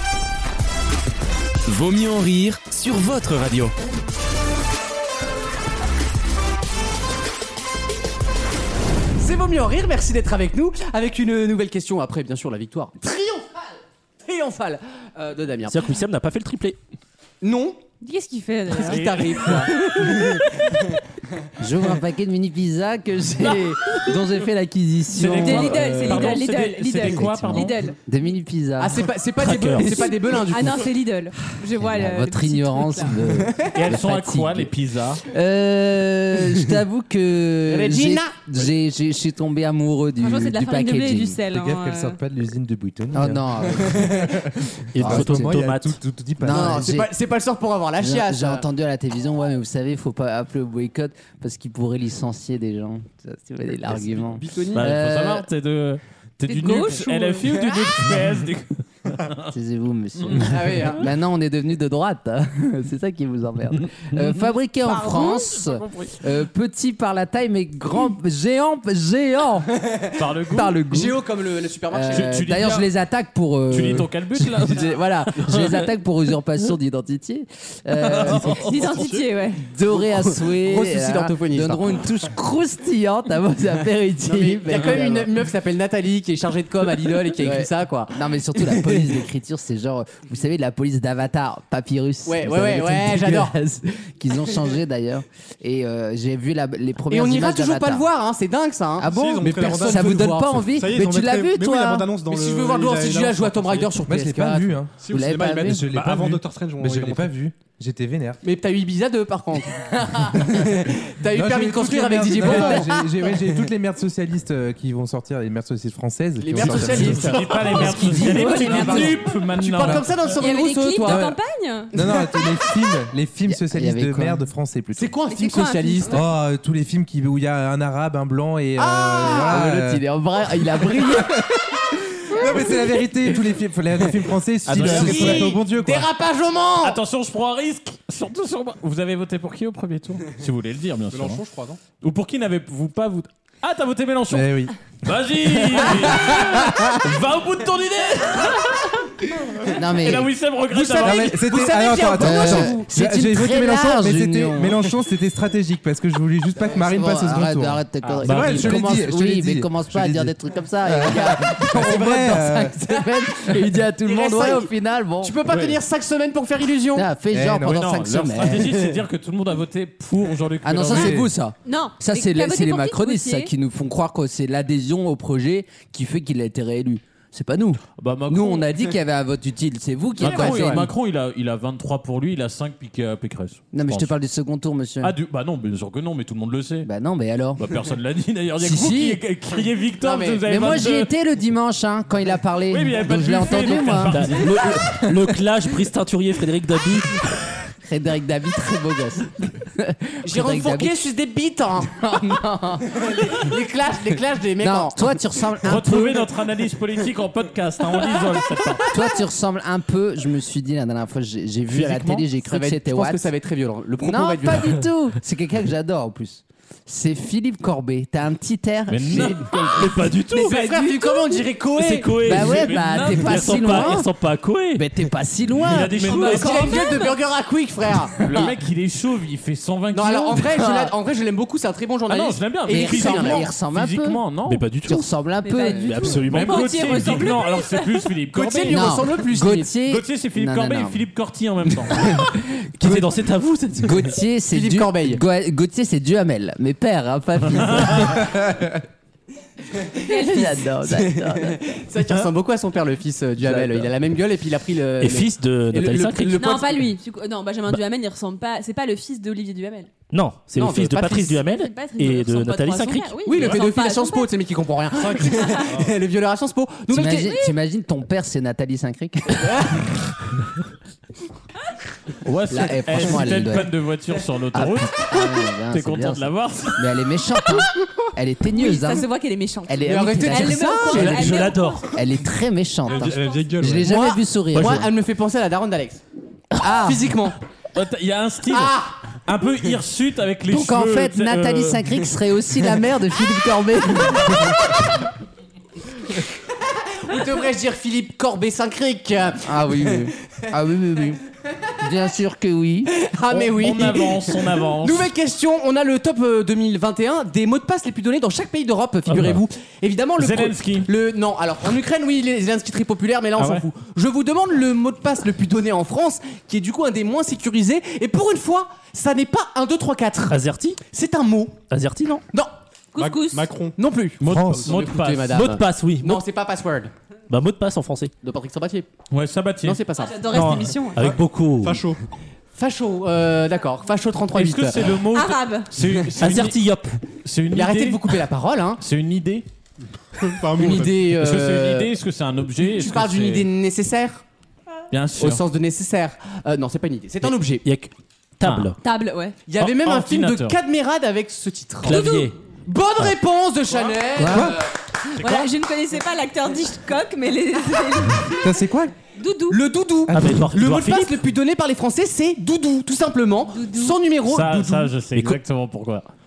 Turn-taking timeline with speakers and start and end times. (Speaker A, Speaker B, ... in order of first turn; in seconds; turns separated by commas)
Speaker A: 1.7-3.7, Speaker B: 9.2-13.6, Speaker B: 14.2-15.9, Speaker C: 15.7-16.8, Speaker B: 17.4-17.8, Speaker D: 18.0-20.4, Speaker B: 18.8-20.4, Speaker E: 18.9-19.6, Speaker F: 21.6-26.3, Speaker E: 25.1-27.8, Speaker D: 25.3-28.0, Speaker F: 27.1-29.1, Speaker B: 28.8-30.9, Speaker C: 29.4-30.1, Speaker D: 29.8-33.4, Speaker F: 31.7-34.7, Speaker E: 33.6-35.2, Speaker F: 35.3-41.4, Speaker B: 37.7-38.4, Speaker D: 40.2-42.2, Speaker G: 41.5-46.9, Speaker F: 43.1-44.4, Speaker C: 45.0-46.0, Speaker F: 45.0-45.6, Speaker F: 46.4-47.1, Speaker B: 46.5-48.6, Speaker F: 48.0-55.5, Speaker B: 54.2-54.9, Speaker E: 54.8-59.5, Speaker D: 56.5-57.7, Speaker F: 59.5-69.8, Speaker E: 60.2-60.5, Speaker B: 60.4-61.0, Speaker E: 64.8-66.1, Speaker E: 70.1-70.8, Speaker F: 70.5-71.2, Speaker B: 70.9-72.3, Speaker F: 71.9-78.7, Speaker E: 72.1-72.9, Speaker E: 73.7-75.9, Speaker E: 78.2-78.9, Speaker D: 78.4-79.6, Speaker H: 78.4-79.2, Speaker F: 79.6-85.4, Speaker B: 79.9-82.0, Speaker B: 84.2-89.1, Speaker F: 87.4-98.1, Speaker B: 92.3-93.6, Speaker B: 97.1-100.5, Speaker F: 99.0-102.1, Speaker H: 99.1-104.0, Speaker B: 102.3-104.8, Speaker G: 104.1-108.4, Speaker H: 104.9-107.3, Speaker F: 105.1-105.9, Speaker B: 108.4-113.0, Speaker F: 110.1-110.4, Speaker G: 111.3-117.6, Speaker B: 116.4-121.3, Speaker E: 116.6-120.1, Speaker F: 117.8-119.1, Speaker D: 117.8-119.2, Speaker D: 120.4-121.9, Speaker G: 121.0-121.4, Speaker G: 121.9-125.1, Speaker F: 123.5-124.5, Speaker B: 125.0-126.2, Speaker D: 125.3-126.2, Speaker G: 126.1-130.1, Speaker B: 128.8-129.6, Speaker F: 129.2-131.9, Speaker G: 131.0-131.3, Speaker G: 132.3-136.1, Speaker D: 132.4-132.7, Speaker E: 134.7-135.6, Speaker B: 134.8-137.0, Speaker E: 136.8-141.4, Speaker H: 141.1-141.8, Speaker E: 142.0-151.5, Speaker G: 144.3-144.7, Speaker F: 145.8-146.9, Speaker F: 149.7-150.3, Speaker B: 150.7-152.9, Speaker G: 151.0-162.8, Speaker F: 152.2-154.9, Speaker F: 156.6-165.4, Speaker E: 158.0-158.8, Speaker B: 164.0-167.1, Speaker E: 165.5-165.8, Speaker F: 166.9-168.9, Speaker G: 167.3-167.8, Speaker E: 167.6-171.2, Speaker F: 170.6-180.9, Speaker G: 170.9-171.3, Speaker D: 170.9-173.5, Speaker E: 178.0-178.7, Speaker E: 180.2-184.2, Speaker B: 180.2-180.9, Speaker F: 183.7-185.2, Speaker E: 185.0-186.9, Speaker F: 186.8-187.6, Speaker E: 187.6-191.1, Speaker F: 188.6-189.2, Speaker B: 190.0-190.4, Speaker F: 190.4-195.4, Speaker E: 192.7-194.8, Speaker C: 194.1-197.2, Speaker F: 197.8-201.0, Speaker B: 200.2-202.0, Speaker F: 201.8-203.0, Speaker B: 202.9-205.1, Speaker F: 204.6-206.2, Speaker E: 205.6-208.9, Speaker F: 208.9-213.3, Speaker E: 211.7-212.3, Speaker B: 212.4-214.8, Speaker F: 214.0-220.1, Speaker E: 218.9-219.7, Speaker C: 219.7-220.6, Speaker B: 220.3-222.3, Speaker D: 220.4-221.4, Speaker C: 221.7-224.9, Speaker F: 222.2-224.1, Speaker E: 222.3-223.9, Speaker F: 224.7-226.0, Speaker E: 225.6-226.8, Speaker C: 225.7-226.5, Speaker B: 226.0-228.5, Speaker D: 226.1-227.2, Speaker E: 228.2-230.5, Speaker B: 229.9-233.5, Speaker F: 230.5-230.9, Speaker E: 232.1-234.6, Speaker F: 232.7-236.2, Speaker C: 234.4-235.1, Speaker D: 235.4-238.0, Speaker C: 235.7-236.7, Speaker E: 236.3-239.0, Speaker B: 238.3-239.7, Speaker F: 238.7-241.1, Speaker E: 239.8-242.2, Speaker C: 242.8-244.1, Speaker F: 242.8-243.1, Speaker F: 243.8-248.8, Speaker B: 244.5-245.2, Speaker E: 247.5-248.2, Speaker B: 249.9-250.2, Speaker F: 250.1-251.6, Speaker D: 250.1-250.6, Speaker B: 250.9-256.9, Speaker F: 253.4-253.8, Speaker C: 255.0-256.5, Speaker D: 256.4-259.9, Speaker C: 260.1-263.1, Speaker B: 260.6-261.4, Speaker D: 261.4-264.3, Speaker B: 263.2-267.4, Speaker E: 265.1-265.9, Speaker D: 265.3-265.6, Speaker F: 266.9-269.8, Speaker D: 267.2-267.6, Speaker B: 269.4-269.9, Speaker E: 272.2-277.1, Speaker F: 272.5-273.7, Speaker F: 274.5-279.1, Speaker D: 278.5-281.9, Speaker F: 279.7-284.9, Speaker B: 279.9-281.4, Speaker C: 280.9-281.9, Speaker H: 282.9-284.0, Speaker B: 283.8-286.0, Speaker F: 286.6-287.1, Speaker B: 286.8-287.4, Speaker E: 287.7-292.0, Speaker B: 288.5-289.0, Speaker F: 290.5-294.9, Speaker B: 296.9-300.1, Speaker F: 299.4-301.2, Speaker F: 301.8-302.9, Speaker B: 302.9-320.4, Speaker E: 303.3-305.1, Speaker E: 310.2-310.9, Speaker E: 313.4-313.7, Speaker C: 320.3-320.8, Speaker B: 320.9-321.6, Speaker C: 321.7-322.2, Speaker D: 322.9-323.5, Speaker H: 323.0-323.8, Speaker B: 323.8-326.9, Speaker E: 324.2-325.5, Speaker G: 324.3-324.7, Speaker C: 325.3-326.2, Speaker C: 327.3-328.1, Speaker B: 328.2-328.9, Speaker E: 329.1-329.8, Speaker B: 329.6-330.3, Speaker D: 330.0-331.1, Speaker C: 330.3-331.9, Speaker H: 331.6-332.0, Speaker B: 332.6-335.0, Speaker E: 334.3-336.6, Speaker D: 335.0-335.7, Speaker C: 336.2-337.0, Speaker E: 337.1-338.2, Speaker B: 337.5-338.8, Speaker E: 338.8-339.5, Speaker H: 340.2-341.1, Speaker B: 340.6-341.9, Speaker E: 341.1-343.5, Speaker B: 342.6-344.2, Speaker E: 344.9-345.4, Speaker B: 345.2-347.6, Speaker C: 347.6-348.8, Speaker E: 348.4-348.7, Speaker D: 348.8-349.4, Speaker B: 349.5-354.7, Speaker E: 349.6-350.6, Speaker C: 351.8-352.3, Speaker D: 351.9-352.2, Speaker F: 354.2-354.6, Speaker G: 354.2-354.5, Speaker D: 355.1-358.6, Speaker G: 358.4-358.9, Speaker D: 359.2-359.6, Speaker B: 359.5-364.9, Speaker C: 360.1-361.1, Speaker D: 363.5-364.0, Speaker E: 364.3-366.1